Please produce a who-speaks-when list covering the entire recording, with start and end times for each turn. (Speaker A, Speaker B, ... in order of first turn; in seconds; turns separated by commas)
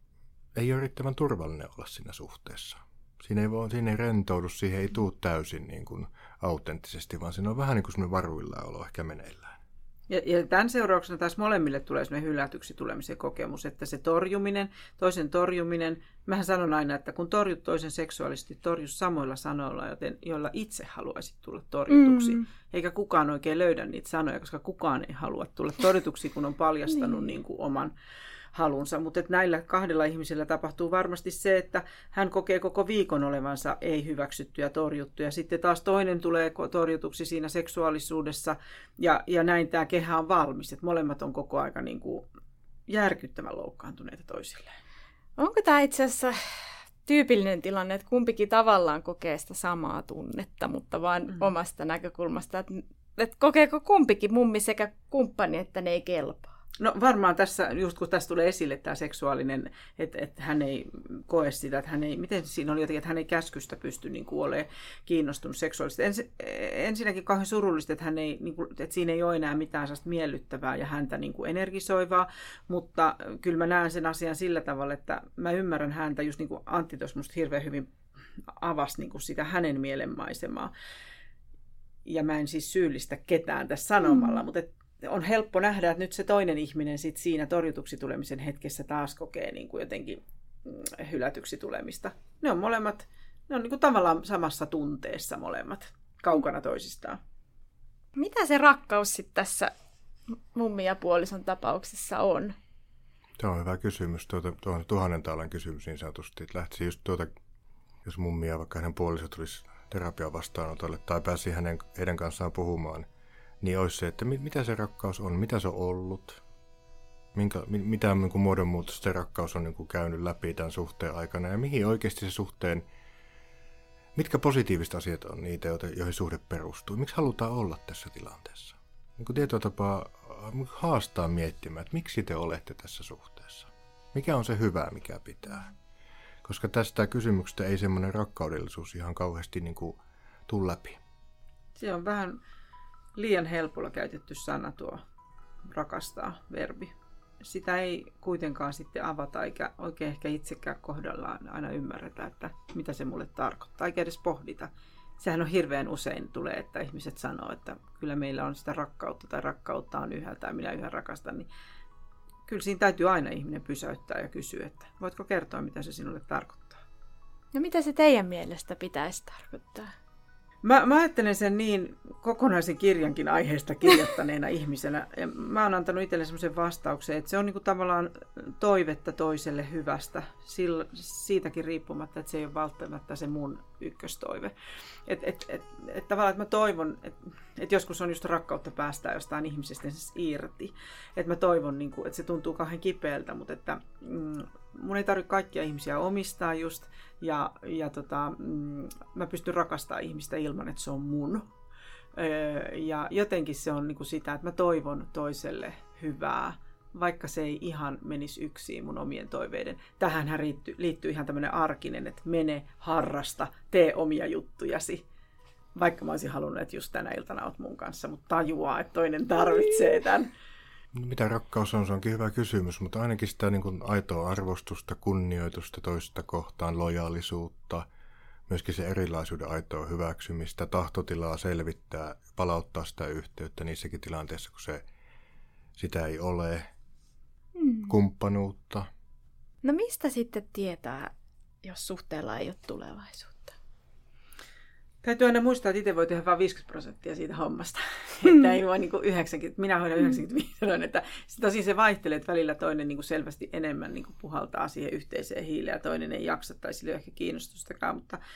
Speaker A: 0.5-9.6, Speaker B: 10.1-27.9, Speaker C: 21.9-22.4, Speaker B: 28.5-42.3, Speaker B: 42.9-44.7, Speaker C: 45.4-56.5, Speaker B: 56.8-77.9, Speaker B: 78.5-80.7, Speaker B: 82.0-97.2, Speaker C: 84.1-84.4, Speaker C: 98.2-99.7, Speaker C: 100.5-102.5, Speaker A: 103.4-107.3, Speaker A: 108.0-113.1, Speaker A: 113.6-116.4, Speaker A: 117.3-122.8, Speaker A: 124.1-135.7, Speaker A: 136.4-141.0, Speaker B: 141.8-142.4, Speaker B: 143.1-145.0, Speaker B: 145.7-161.5, Speaker B: 162.5-166.8, Speaker C: 167.5-169.9, Speaker B: 170.6-184.5, Speaker B: 185.1-201.4, Speaker B: 202.2-215.0, Speaker B: 215.7-220.3, Speaker A: 220.9-227.8, Speaker A: 228.5-234.8, Speaker A: 235.8-236.7, Speaker C: 237.6-237.9, Speaker A: 237.9-238.9, Speaker C: 239.6-241.1, Speaker C: 241.6-243.5, Speaker B: 245.0-258.2